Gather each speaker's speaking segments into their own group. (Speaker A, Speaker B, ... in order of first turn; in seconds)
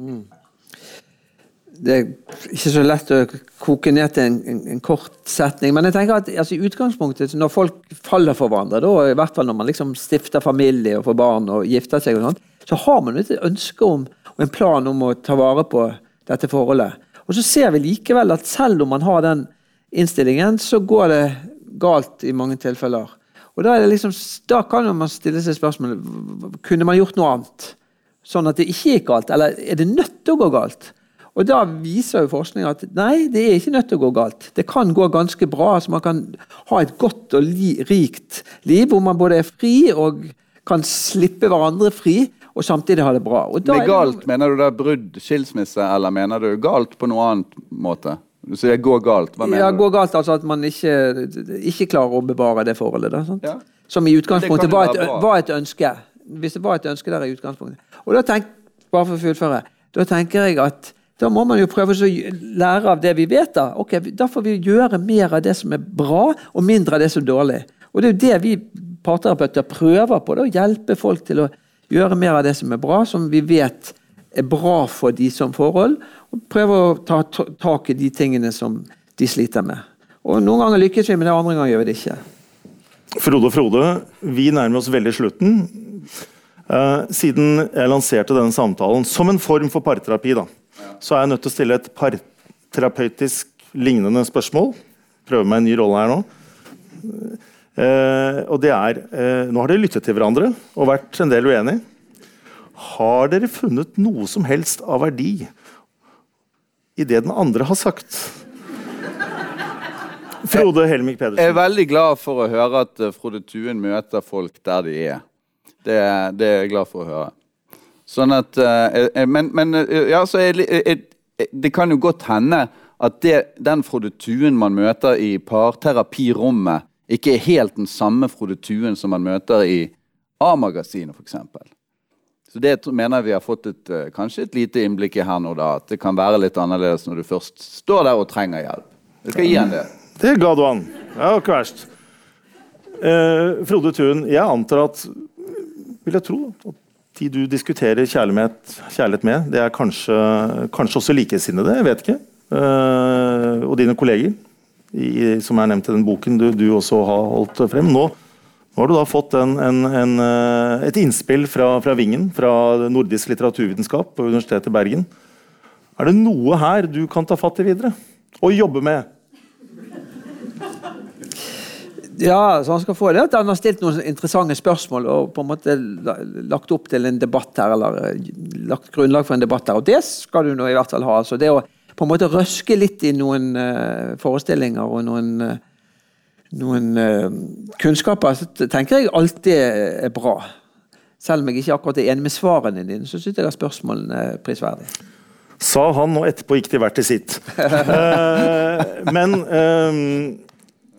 Speaker A: 1.8-44.2, 49.4-82.2, 172.1-185.6, 186.5-190.5, 191.2-194.9
Speaker B: 43.6-49.8, 54.3-55.3, 111.4-115.2, 115.8-117.3, 118.1-131.7, 132.5-139.9
Speaker C: 83.2-86.1, 86.7-90.5, 91.0-96.2, 97.0-101.8, 102.8-105.5, 107.0-108.4, 110.4-111.6, 140.2-141.9, 143.0-154.4, 154.9-158.2, 158.8-165.1, 166.0-169.1, 195.6-200.4